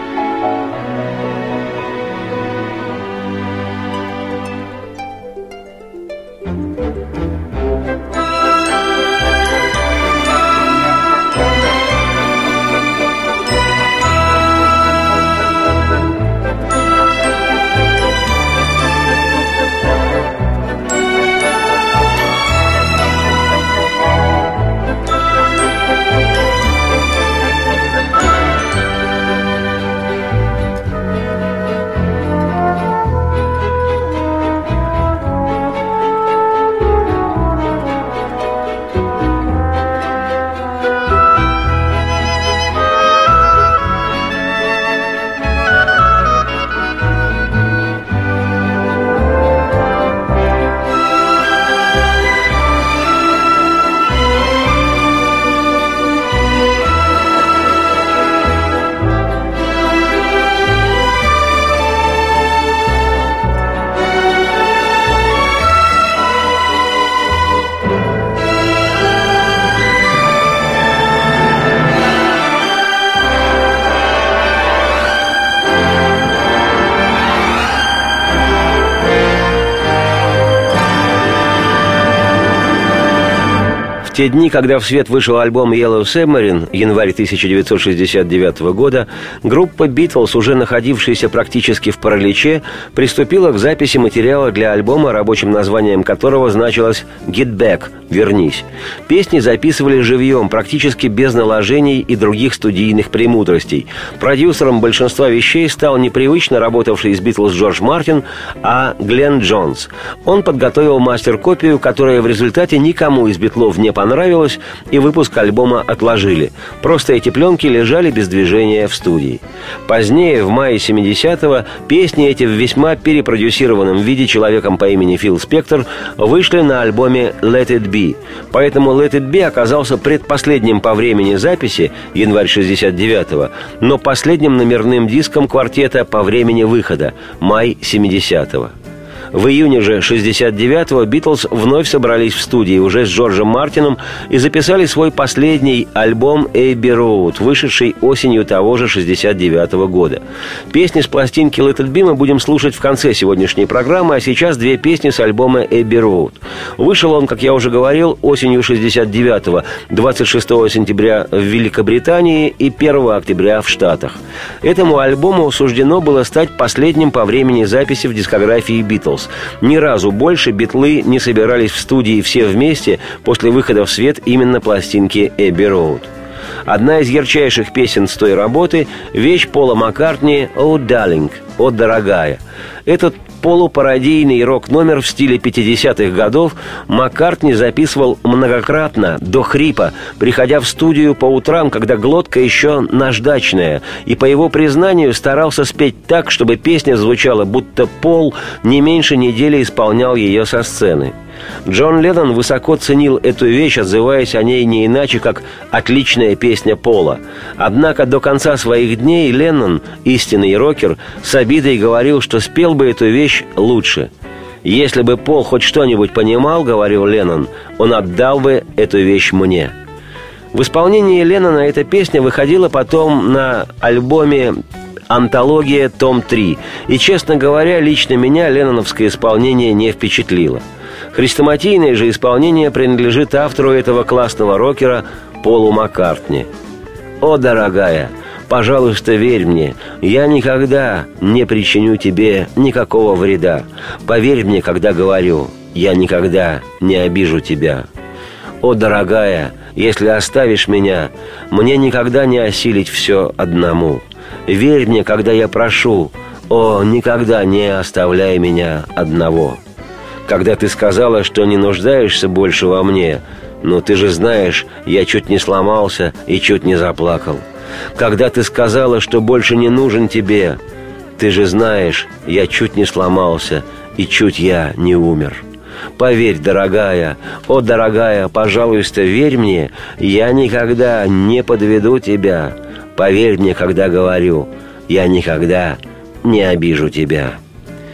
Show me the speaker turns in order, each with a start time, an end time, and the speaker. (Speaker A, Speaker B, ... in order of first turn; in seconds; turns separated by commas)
Speaker A: 84.0-138.7, Speaker A: 139.3-176.1, Speaker A: 176.7-201.1, Speaker A: 201.7-214.1, Speaker A: 214.6-219.7, Speaker A: 220.5-224.6, Speaker A: 225.1-236.5, Speaker A: 237.2-247.9, Speaker A: 248.6-259.6, Speaker A: 260.3-267.4, Speaker A: 267.9-270.6, Speaker A: 271.2-275.4, Speaker A: 276.0-287.4